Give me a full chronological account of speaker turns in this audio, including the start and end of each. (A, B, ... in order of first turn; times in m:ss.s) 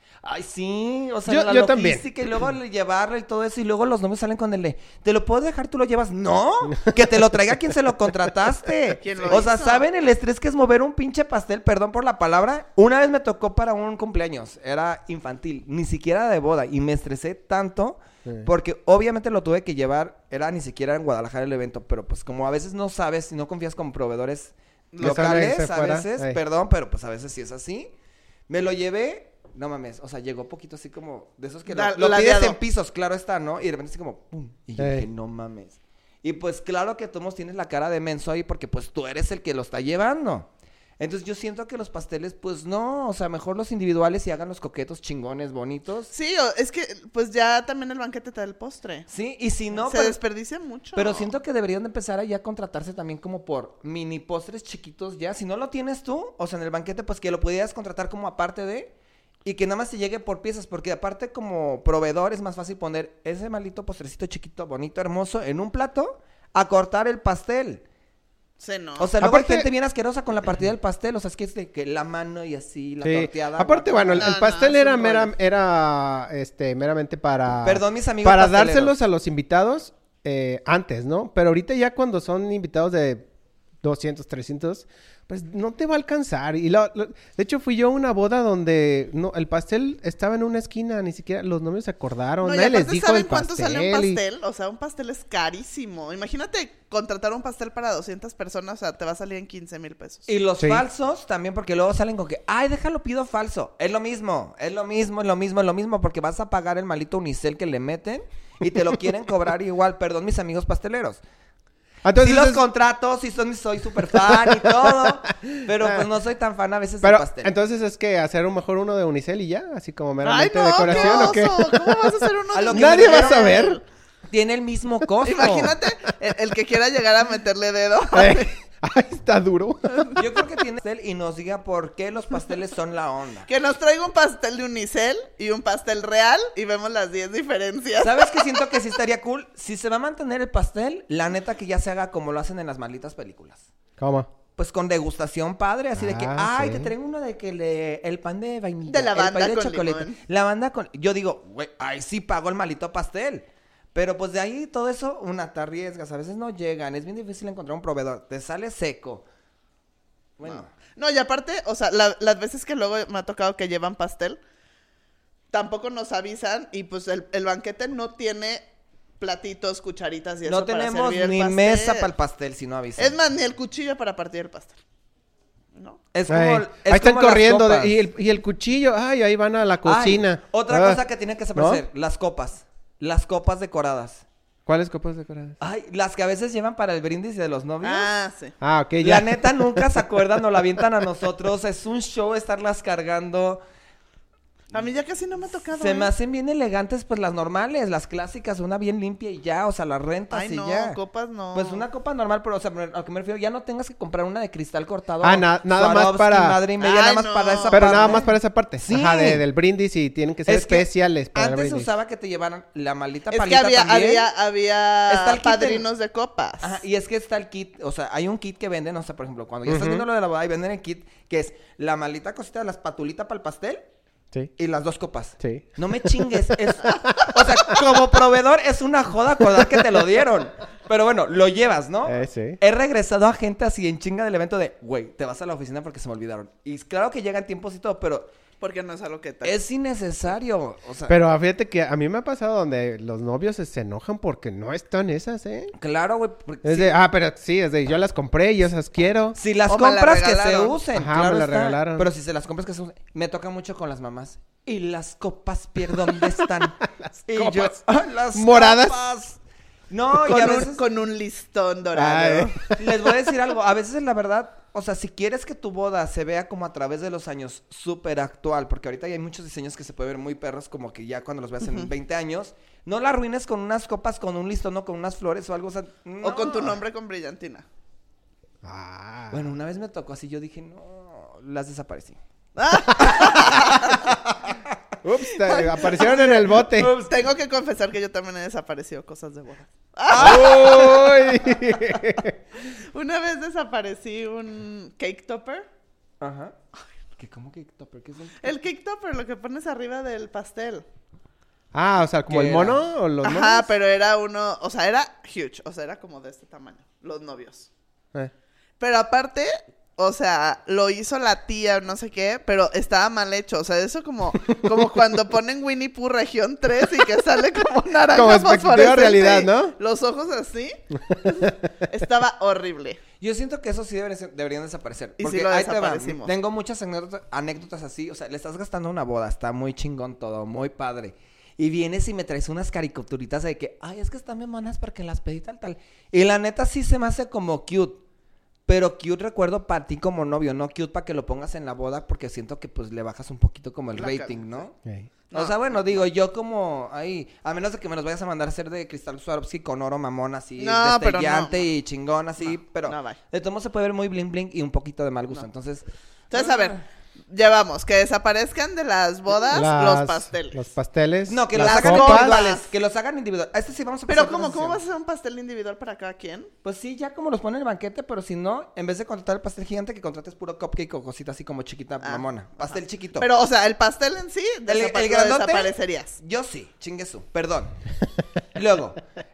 0:00.2-0:27.9 A
0:01.3-0:02.1 B
0:09.0-0:09.8 C
0:24.9-0:25.4 C
0:25.0-0:26.4 B
0:28.5-0:40.5 A
0:31.7-0:32.6 C
0:34.8-0:35.1 B
0:41.0-0:46.1 A
0:46.1-0:49.1 C
0:49.1-0:50.2 A
0:49.7-0:51.3 C
0:51.0-0:58.9 A
0:59.4-1:07.8 A
1:08.6-1:09.1 C
1:09.0-1:14.3 A
1:09.2-1:09.7 B
1:13.0-1:23.2 B
1:14.2-1:15.3 C
1:17.6-1:18.9 A
1:23.8-1:34.2 B
1:32.4-1:40.2 C
1:40.3-1:51.2 A
1:52.0-1:52.6 B
1:52.2-1:57.5 A
1:54.3-1:55.6 B
1:57.0-2:02.2 B
2:00.2-2:03.8 C
2:00.8-2:01.4 A
2:02.5-2:03.5 A
2:02.7-2:03.8 B
2:04.3-2:05.7 A
2:05.2-2:08.5 C
2:08.1-2:10.2 B
2:10.2-2:13.5 A
2:13.4-2:18.9 C
2:18.0-2:23.6 A
2:24.0-2:24.3 B
2:24.6-2:39.2 A
2:26.0-2:26.9 B
2:28.9-2:30.2 C
2:40.4-2:40.7 A
2:40.4-2:44.4 C
2:45.5-2:48.6 C
2:49.2-2:52.1 C
2:50.4-2:53.2 A
2:53.0-2:54.8 C
2:56.1-2:58.0 A
2:56.3-3:01.0 B
2:59.8-3:04.2 A
3:01.5-3:01.8 B
3:04.6-3:05.6 B
3:05.6-3:08.1 A
3:07.8-3:08.5 C
3:08.6-3:10.0 B
3:09.0-3:13.6 A
3:14.7-3:16.1 C
3:15.7-3:21.0 A
3:20.3-3:21.8 C
3:21.5-3:28.2 A
3:25.2-3:26.6 B
3:26.8-3:28.3 C
3:27.7-3:31.9 B
3:28.8-3:29.4 A
3:30.4-3:34.3 A
3:33.3-3:36.8 C
3:35.1-3:35.9 A
3:36.6-3:43.8 A
3:39.7-3:40.0 B
3:44.6-3:58.3 A
3:45.4-3:47.8 B
3:52.0-3:52.6 B
3:58.6-3:59.6 C
3:59.4-4:01.2 A
4:01.1-4:05.7 B
4:05.8-4:06.9 A
4:06.6-4:09.4 B
4:09.4-4:19.4 A
4:09.7-4:10.8 C
4:10.9-4:12.1 B
4:17.0-4:17.8 B
4:18.3-4:19.0 B
4:19.9-4:20.8 A
4:20.2-4:22.7 C
4:21.9-4:22.8 B
4:22.8-4:36.8 A
4:36.2-4:37.6 C
4:38.6-4:39.4 B
4:39.3-4:42.2 A
4:42.6-4:44.1 C
4:43.0-4:44.8 A
4:45.0-4:46.9 B
4:45.3-4:50.9 C
4:46.8-4:47.1 A
4:50.1-4:52.0 A
4:50.1-4:52.4 B
4:52.7-4:55.6 C
4:56.2-4:56.5 A
4:57.2-4:58.5 A
4:58.4-5:00.8 C
5:01.7-5:03.7 B
5:02.3-5:02.8 A
5:03.2-5:07.7 C
5:08.8-5:23.0 C
5:18.1-5:19.7 B
5:21.0-5:21.7 B
5:23.2-5:38.0 A
5:25.2-5:26.3 C
5:38.7-5:44.7 A
5:44.0-5:44.7 C
5:45.3-5:56.8 A
5:50.6-5:51.6 C
5:52.8-5:53.2 C
5:56.3-6:00.7 C
5:59.5-6:02.4 B
6:01.3-6:04.8 A
6:01.6-6:02.7 C
6:04.1-6:06.5 C
6:06.6-6:13.3 A
6:12.0-6:16.2 C
6:14.7-6:17.7 A
6:18.5-6:19.0 A